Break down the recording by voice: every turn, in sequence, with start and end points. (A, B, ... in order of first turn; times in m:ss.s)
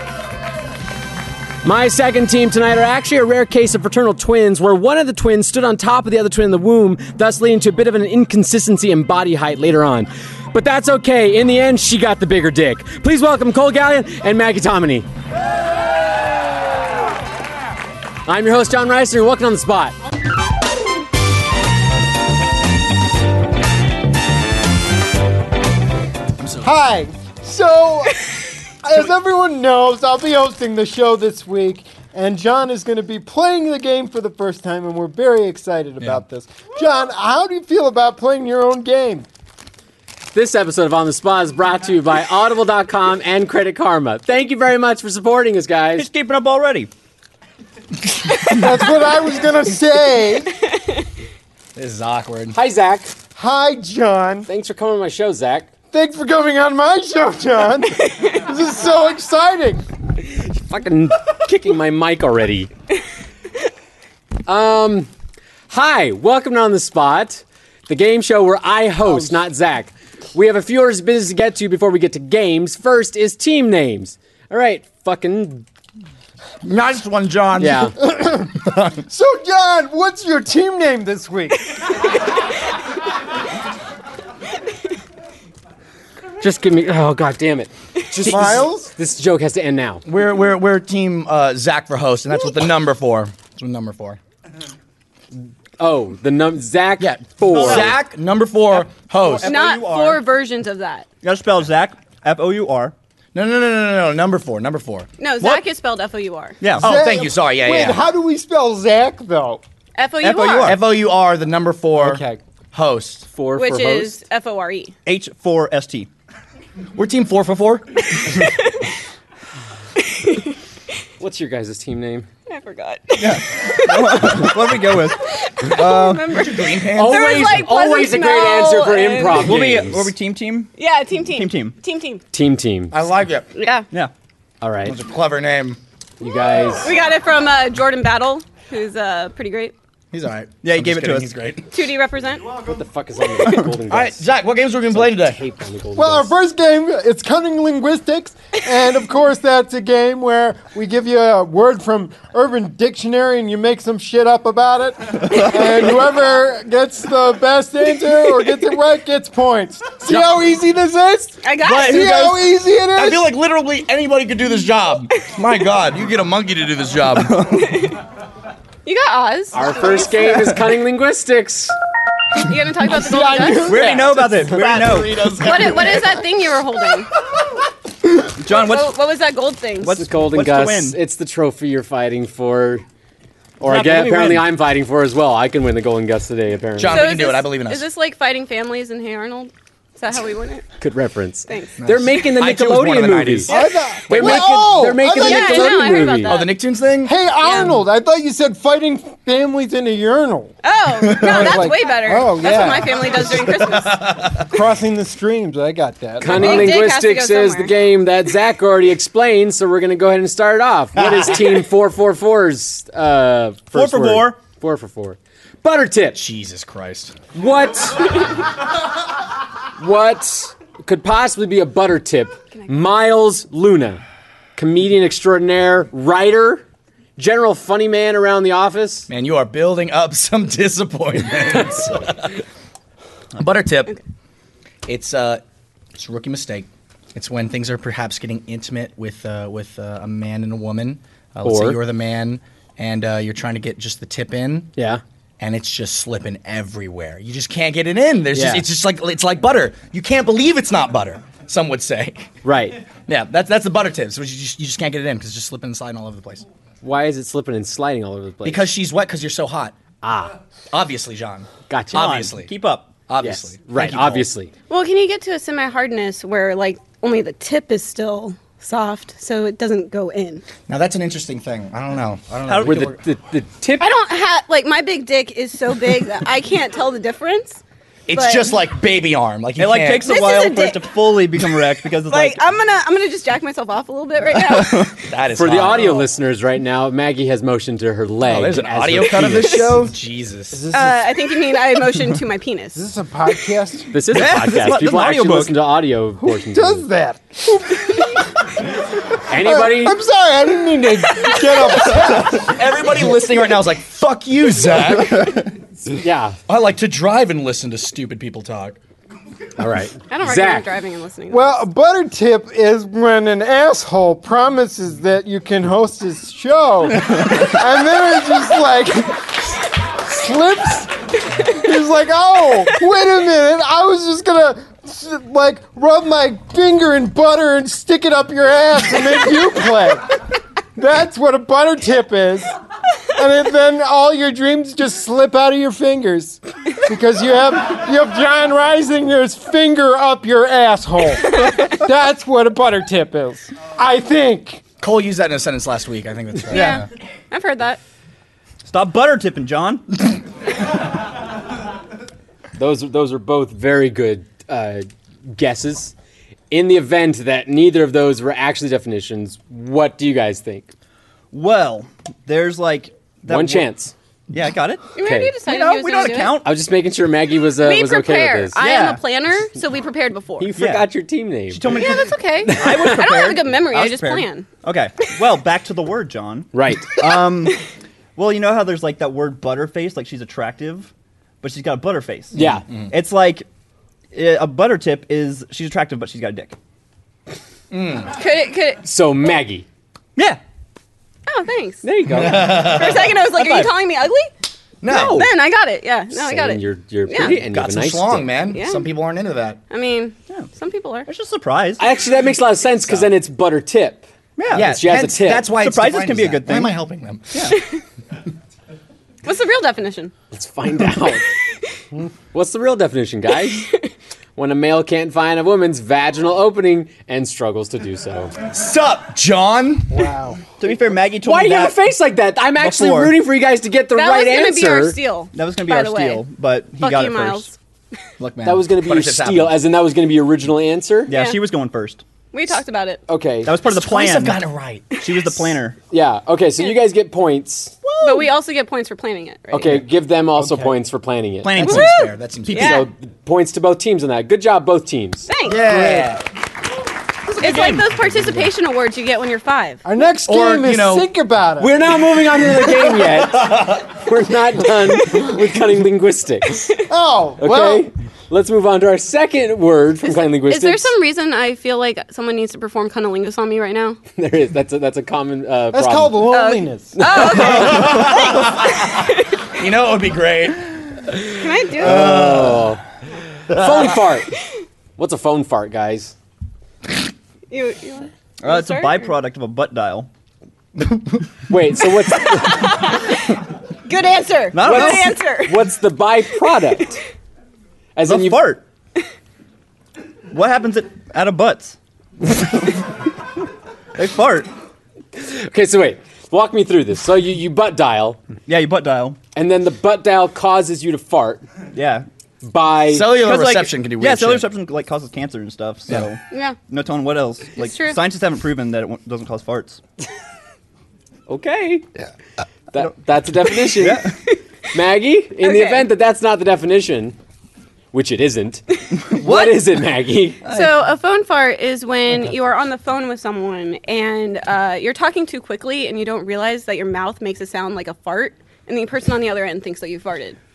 0:01.6-0:15.1 A
0:18.2-0:20.0 A
0:26.4-0:26.7 B
0:26.6-0:28.2 C
0:28.8-0:39.2 C
0:40.3-0:46.1 A
0:46.0-0:46.9 D
0:48.5-0:50.6 C
0:51.7-0:52.6 B
0:52.5-0:53.1 A
0:53.4-0:54.5 C
0:54.5-0:55.7 A
0:55.9-0:59.8 C
1:00.4-1:02.7 A
1:04.5-1:05.1 A
1:05.7-1:15.6 A
1:09.0-1:09.4 C
1:16.6-1:18.0 B
1:17.6-1:17.9 A
1:18.0-1:21.7 C
1:26.4-1:30.0 A
1:28.2-1:28.8 B
1:28.3-1:28.6 C
1:30.0-1:34.2 B
1:35.8-1:38.0 A
1:37.0-1:39.6 B
1:37.4-1:38.0 D
1:39.2-1:40.2 D
1:39.4-1:41.1 E
1:41.2-1:42.9 D
1:43.3-1:45.1 B
1:45.2-1:46.6 E
1:46.6-1:47.0 D
1:46.8-1:48.0 B
1:46.8-1:49.6 C
1:50.0-1:50.8 E
1:50.2-1:50.8 D
1:50.6-1:53.3 B
1:52.0-1:52.4 A
1:53.3-1:54.2 A
1:53.5-1:54.9 E
1:55.0-1:56.1 D
1:56.9-1:58.3 B
2:00.1-2:00.5 E
2:01.2-2:02.3 A
2:02.5-2:04.6 E
2:03.2-2:06.4 D
2:05.3-2:09.6 E
2:06.3-2:07.6 B
2:06.9-2:10.1 A
2:09.3-2:10.7 D
2:10.8-2:12.2 E
2:11.2-2:11.7 D
2:12.3-2:12.9 A
2:12.9-2:13.5 B
2:13.5-2:13.8 E
2:14.6-2:15.0 A
2:14.8-2:15.8 B
2:16.2-2:16.9 A
2:16.8-2:19.7 E
2:20.1-2:21.7 B
2:20.6-2:21.3 D
2:21.7-2:22.5 E
2:22.6-2:24.2 A
2:23.9-2:25.4 B
2:24.9-2:26.3 A
2:26.0-2:43.3 C
2:41.4-2:42.2 E
2:41.6-2:47.8 B
2:48.8-2:49.8 E
2:49.5-2:51.7 A
2:52.4-2:53.8 E
2:52.9-2:54.9 C
2:53.6-2:55.3 D
2:53.7-2:56.2 B
2:55.4-2:57.1 E
2:58.4-2:58.9 D
2:58.5-3:00.0 E
2:59.8-3:01.0 D
2:59.9-3:02.8 A
3:03.6-3:07.1 A
3:03.6-3:04.4 B
3:06.8-3:07.8 B
3:06.9-3:10.7 E
3:10.8-3:13.5 A
3:11.5-3:11.8 E
3:11.8-3:14.4 B
3:13.5-3:16.1 C
3:14.1-3:16.4 A
3:14.2-3:14.4 E
3:15.1-3:16.6 E
3:16.2-3:17.1 B
3:17.0-3:20.5 C
3:17.4-3:17.8 E
3:20.6-3:24.0 E
3:21.1-3:21.5 B
3:21.1-3:23.7 C
3:23.6-3:24.6 B
3:24.4-3:26.8 C
3:26.2-3:36.2 A
3:26.2-3:27.7 E
3:31.0-3:31.6 B
3:33.7-3:34.4 D
3:36.1-3:37.2 B
3:37.3-3:38.3 A
3:39.8-3:44.0 A
3:44.6-3:46.6 A
3:47.2-3:49.1 A
3:49.1-3:52.4 B
3:53.4-3:54.0 B
3:54.8-3:55.4 B
3:56.0-4:04.7 B
4:01.4-4:01.8 A
4:04.8-4:05.0 A
4:05.4-4:12.3 B
4:08.3-4:08.6 A
4:12.4-4:12.8 A
4:13.1-4:16.4 B
4:16.8-4:18.7 A
4:18.4-4:19.8 B
4:20.0-4:20.3 A
4:20.7-4:22.5 B
4:21.7-4:22.2 A
4:21.9-4:23.0 D
4:23.0-4:24.3 B
4:23.2-4:24.5 A
4:24.7-4:30.4 E
4:30.7-4:33.0 B
4:32.4-4:32.9 D
4:32.6-4:33.9 A
4:33.8-4:37.6 E
4:38.1-4:40.1 B
4:38.1-4:38.5 E
4:39.6-4:42.4 D
4:40.0-4:40.9 E
4:41.9-4:45.0 E
4:44.4-4:45.0 D
4:45.0-4:46.1 B
4:45.3-4:49.7 A
4:48.2-4:50.7 B
4:49.1-4:49.9 D
4:50.5-4:51.1 C
4:50.7-4:52.8 E
4:52.7-4:53.9 C
4:53.9-4:56.9 A
4:54.1-4:55.6 D
4:56.2-4:58.5 C
4:59.2-5:00.0 A
4:59.3-5:02.6 C
5:01.7-5:05.5 B
5:05.1-5:05.4 D
5:05.8-5:06.4 A
5:06.5-5:08.8 B
5:09.6-5:10.7 A
5:10.1-5:11.6 E
5:11.3-5:30.2 C
5:30.8-5:32.6 C
5:33.1-5:44.6 C
5:44.8-5:46.8 B
5:46.5-5:46.8 D
5:46.5-5:47.8 E
5:48.6-5:49.8 D
5:52.6-5:55.9 A
5:56.5-6:00.7 A
6:01.3-6:03.7 D
6:03.3-6:03.9 A
6:04.3-6:04.8 D
6:05.0-6:06.4 E
6:05.0-6:05.3 A
6:05.4-6:06.5 D
6:06.4-6:08.6 A
6:07.6-6:10.5 E
6:08.6-6:09.0 D
6:10.4-6:11.8 A
6:10.6-6:10.9 D
6:11.5-6:17.6 D
6:11.7-6:14.5 E
6:12.4-6:13.1 A
6:16.5-6:17.0 A
6:18.2-6:23.4 D
6:22.3-6:22.6 A
6:24.1-6:26.6 D
6:27.7-6:28.1 B
6:28.1-6:28.8 E
6:28.8-6:29.6 A
6:31.3-6:34.3 E
6:31.8-6:32.8 A
6:32.1-6:33.2 B
6:33.3-6:33.7 D
6:34.8-6:35.3 B
6:34.9-6:35.3 A
6:35.0-6:37.4 E
6:36.1-6:38.3 A
6:37.4-6:39.6 B
6:38.5-6:38.9 E
6:39.7-6:41.1 E
6:41.0-6:41.8 D
6:41.8-6:45.5 A
6:44.4-6:44.8 D
6:44.5-6:47.5 B
6:45.4-6:46.8 D
6:47.3-6:47.6 D
6:49.2-6:50.1 E
6:50.3-6:51.3 A
6:52.3-6:53.7 A
6:54.4-6:58.3 A
6:58.5-6:59.9 B
6:59.9-7:00.4 C
7:00.6-7:01.8 D
7:01.2-7:05.0 A
7:02.6-7:03.2 D
7:04.0-7:06.2 E
7:05.3-7:07.5 D
7:06.8-7:07.5 E
7:08.2-7:09.6 B
7:08.4-7:11.1 A
7:11.1-7:12.0 D
7:11.1-7:11.4 E
7:12.3-7:13.0 E
7:13.1-7:13.5 A
7:13.4-7:14.4 D
7:13.6-7:15.5 B
7:15.0-7:15.8 D
7:15.9-7:17.8 A
7:17.8-7:18.2 D
7:18.0-7:19.8 E
7:19.5-7:21.9 A
7:20.4-7:20.7 C
7:21.4-7:22.1 D
7:21.5-7:22.8 B
7:21.6-7:22.8 E
7:22.5-7:25.3 A
7:25.3-7:25.7 E
7:25.5-7:26.2 B
7:25.8-7:26.0 D
7:27.4-7:27.8 D
7:27.4-7:29.8 E
7:29.8-7:31.7 C
7:30.2-7:31.1 B
7:31.6-7:36.8 A
7:36.9-7:37.9 C
7:37.4-7:40.9 A
7:40.5-7:44.0 E
7:44.2-7:46.3 A
7:45.7-7:47.0 C
7:46.3-7:49.3 E
7:47.0-7:48.1 A
7:47.3-7:51.0 B
7:51.4-7:52.1 E
7:51.8-7:52.8 B
7:51.8-7:52.8 A
7:53.5-7:54.3 A
7:53.5-7:53.8 B
7:55.0-7:56.1 A
7:57.5-7:59.1 E
7:58.4-8:00.1 D
8:01.5-8:02.8 A
8:02.2-8:03.3 E
8:03.8-8:05.6 E
8:04.5-8:05.2 D
8:04.6-8:07.0 A
8:08.0-8:08.5 A
8:08.0-8:08.6 D
8:10.3-8:11.8 D
8:14.0-8:14.5 D
8:15.2-8:18.2 A
8:18.5-8:19.2 D
8:19.3-8:21.4 A
8:21.7-8:22.0 D
8:22.4-8:23.1 A
8:22.9-8:24.5 B
8:23.2-8:29.8 D
8:26.3-8:26.6 E
8:27.6-8:28.0 E
8:31.3-8:31.8 D
8:32.7-8:34.1 A
8:33.8-8:34.2 D
8:34.7-8:37.2 A
8:35.4-8:35.8 E
8:37.9-8:40.4 A
8:39.1-8:39.6 D
8:40.4-8:40.7 D
8:40.4-8:50.4 E